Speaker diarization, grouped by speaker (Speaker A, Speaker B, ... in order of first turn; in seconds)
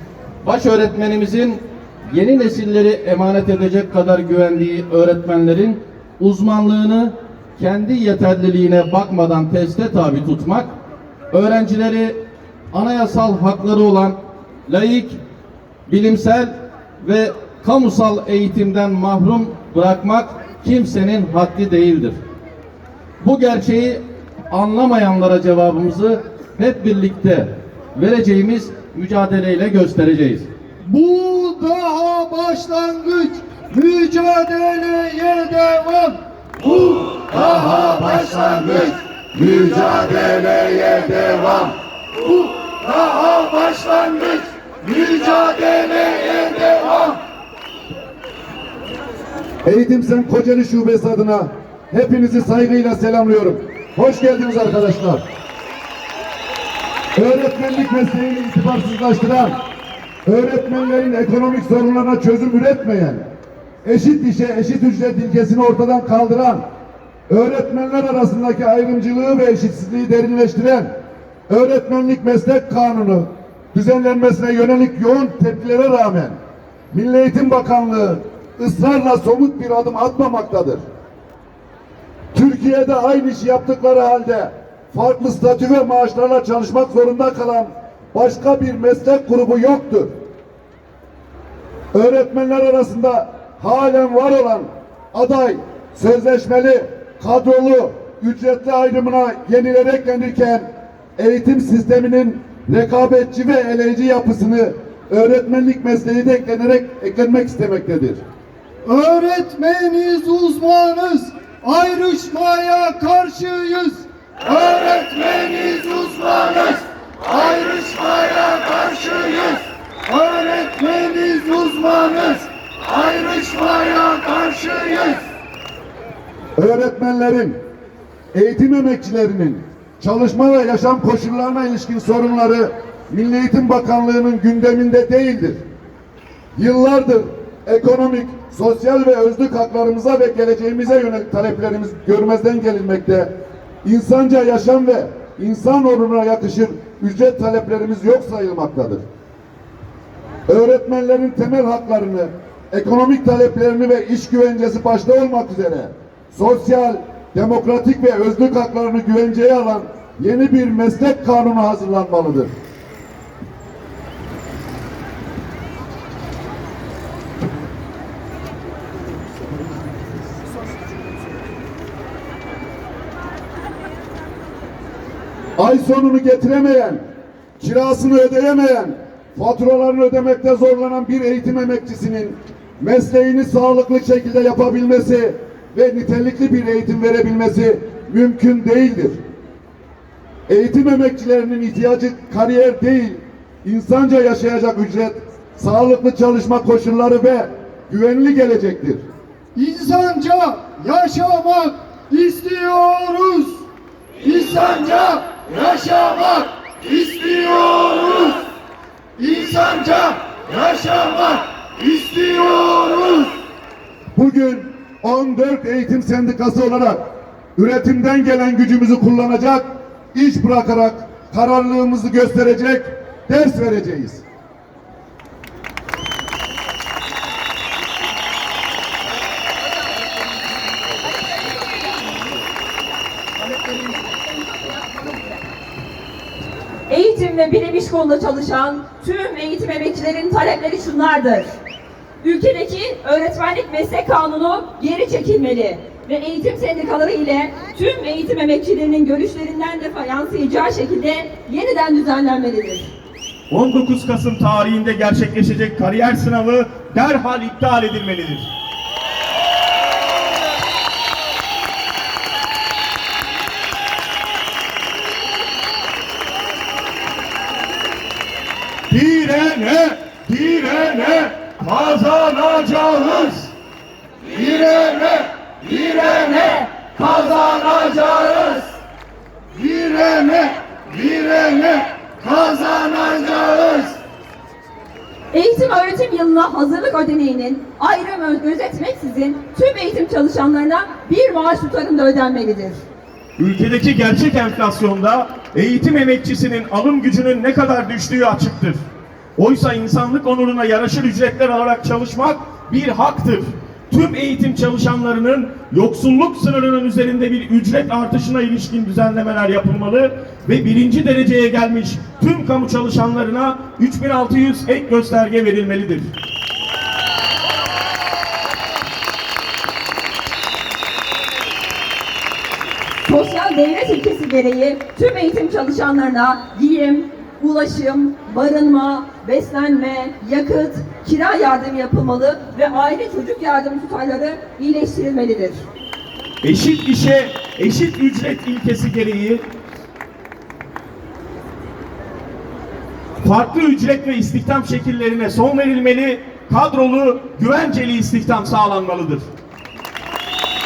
Speaker A: 0.4-10.7, 11.3-12.2, 12.7-15.2, 15.9-22.2, 23.2-30.5
Speaker B: 30.8-39.0, 42.2-47.2, 108.8-125.2, 199.5-203.6, 204.2-208.4, 209.2-213.3, 274.3-275.8, 277.1-278.6, 279.5-284.0
Speaker C: 39.4-41.7, 49.6-55.2, 57.1-59.6, 60.2-63.2, 63.8-66.6, 67.3-70.9, 71.5-76.4, 76.9-80.8, 82.3-90.1, 91.9-108.2, 126.5-127.6, 128.3-135.6, 136.6-143.3, 143.8-149.0, 150.5-162.5, 175.6-177.0, 177.6-189.2, 190.5-199.0, 214.1-217.0, 217.6-224.2
Speaker D: 233.4-235.4, 236.9-241.6, 242.2-252.9, 276.1-276.7, 285.3-292.8, 323.1-335.6
Speaker E: 253.5-258.5, 268.9-273.5, 293.4-298.8, 299.4-316.1, 336.4-339.4, 343.2-349.2